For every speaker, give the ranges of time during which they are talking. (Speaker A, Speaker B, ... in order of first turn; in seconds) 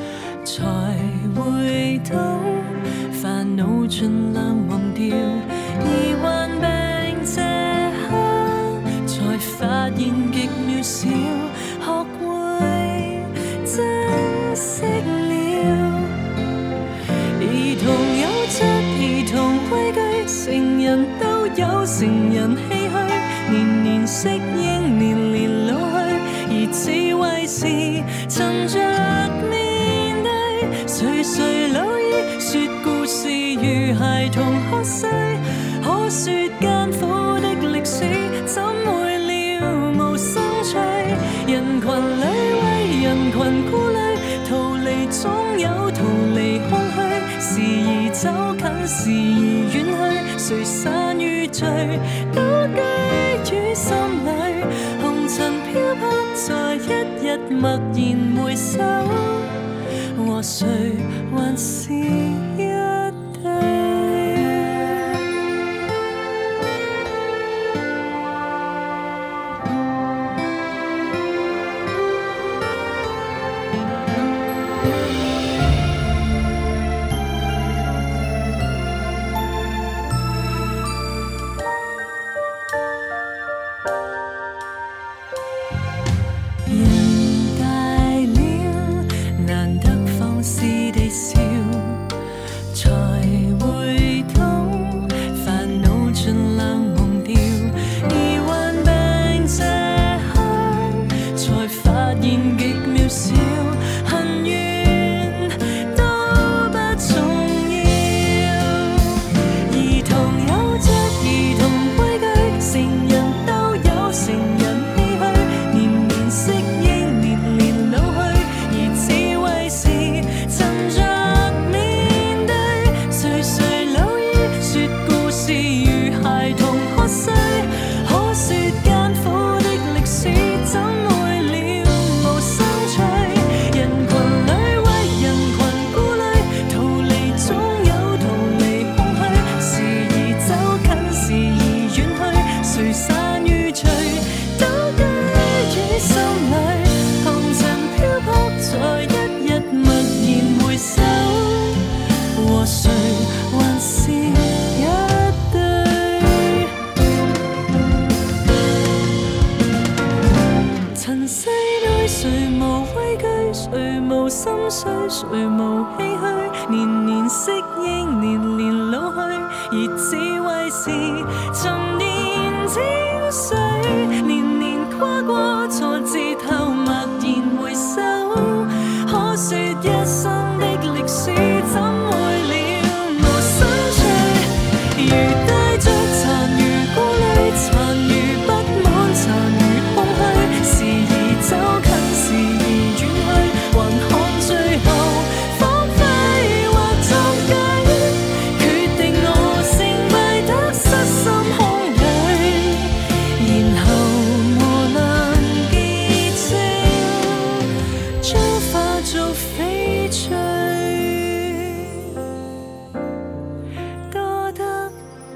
Speaker A: 0.4-16.2, 17.4-59.6, 60.1-64.8, 86.7-92.1, 92.7-156.8, 160.9-212.2, 214.1-215.0